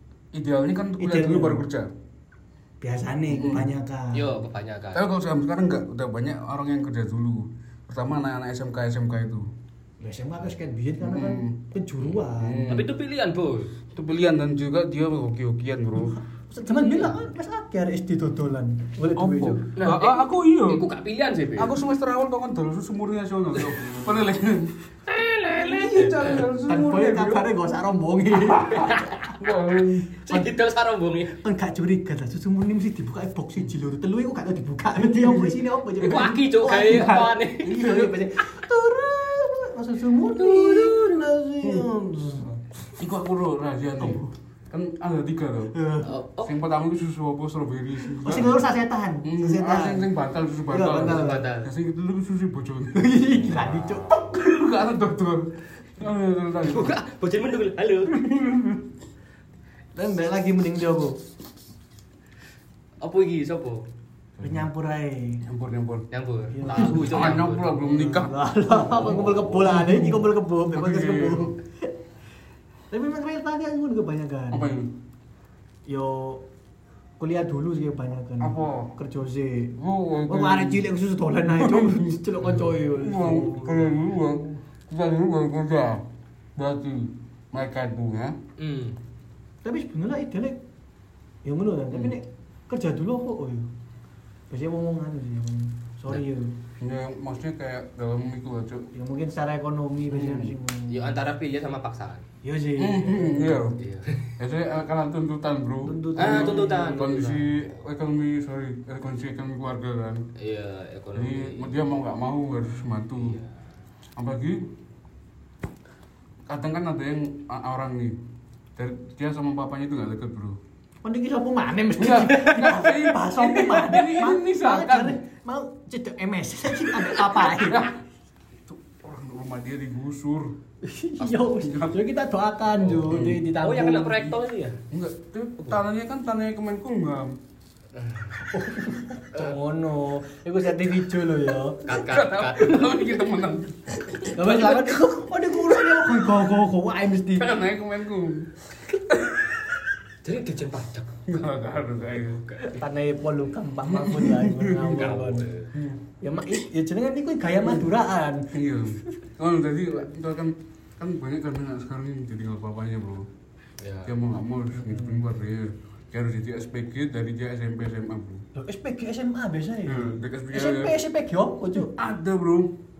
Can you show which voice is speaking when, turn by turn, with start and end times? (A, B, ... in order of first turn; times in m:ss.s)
0:00.3-0:01.9 A
0:01.0-0:01.7 B
0:02.8-0:04.4 B
0:03.3-0:03.7 A
0:04.1-0:05.1 C
0:04.9-0:09.5 A
0:10.0-0:12.7 B
0:11.0-0:11.6 A
0:12.1-0:12.9 A
0:12.7-0:13.7 C
0:13.9-0:16.2 A
0:16.5-0:19.6 B
0:16.7-0:17.2 C
0:19.2-0:20.9 A
0:19.7-0:21.8 C
0:21.6-0:24.9 A
0:25.1-0:26.4 C
0:25.5-0:27.5 A
0:26.6-0:29.2 B
0:28.5-0:30.1 A
0:28.7-0:29.3 C
0:30.2-0:31.4 C
0:31.3-0:42.6 B
0:35.0-0:36.2 A
0:36.0-0:37.8 C
0:37.6-0:38.2 A
0:40.4-0:41.2 C
0:41.6-0:41.9 A
0:43.0-0:45.8 A
0:44.0-0:44.3 B
0:45.7-0:46.1 B
0:46.0-0:46.5 C
0:46.4-0:48.6 A
0:48.2-0:50.1 B
0:49.2-0:57.0 A
0:50.7-0:51.5 B
0:51.0-0:51.7 C
0:52.9-0:54.2 B
0:56.6-0:58.2 C
0:58.3-0:58.6 B
0:59.9-1:01.2 B
1:03.0-1:03.8 C
1:04.4-1:04.7 A
1:04.4-1:05.4 B
1:05.4-1:06.1 A
1:06.1-1:07.8 C
1:06.5-1:11.9 B
1:06.6-1:11.5 A
1:12.9-1:14.7 B
1:14.5-1:14.9 A
1:15.9-1:16.4 B
1:17.2-1:24.0 B
1:18.4-1:18.9 A
1:19.8-1:20.8 A
1:21.5-1:28.4 A
1:28.6-1:29.0 C
1:29.6-1:30.6 B
1:31.4-1:33.7 B
1:34.5-1:36.6 B
1:36.8-1:38.9 A
1:38.9-1:41.2 B
1:40.1-1:40.6 A
1:40.8-1:42.2 C
1:42.4-1:43.7 B
1:42.8-1:43.8 A
1:43.8-1:44.3 C
1:44.4-1:50.3 A
1:45.8-1:47.0 B
1:46.2-1:47.8 C
1:50.4-1:51.8 C
1:51.1-1:53.4 A
1:53.2-1:53.5 C
1:54.2-1:54.7 A
1:56.4-1:58.2 A
1:58.8-2:00.6 A
2:01.0-2:07.8 B
2:02.0-2:05.2 A
2:06.7-2:08.0 A
2:08.6-2:10.6 A
2:10.8-2:14.3 B
2:11.4-2:12.0 A
2:12.8-2:14.8 C
2:13.0-2:13.5 A
2:14.9-2:17.4 A
2:17.9-2:18.5 C
2:18.5-2:21.9 B
2:21.8-2:23.0 C
2:21.9-2:24.9 A
2:24.2-2:27.7 B
2:27.4-2:28.5 A
2:29.1-2:29.5 A
2:30.2-2:31.2 C
2:31.2-2:32.5 A
2:32.0-2:32.8 C
2:32.7-2:35.5 B
2:33.8-2:35.2 A
2:34.9-2:35.7 C
2:35.7-2:36.0 A
2:36.2-2:39.1 B
2:37.6-2:37.9 A
2:38.5-2:43.3 A
2:43.8-2:44.1 C
2:44.0-2:48.4 A
2:44.8-2:45.2 B
2:48.5-2:51.9 B
2:49.8-2:51.0 A
2:51.7-2:52.7 A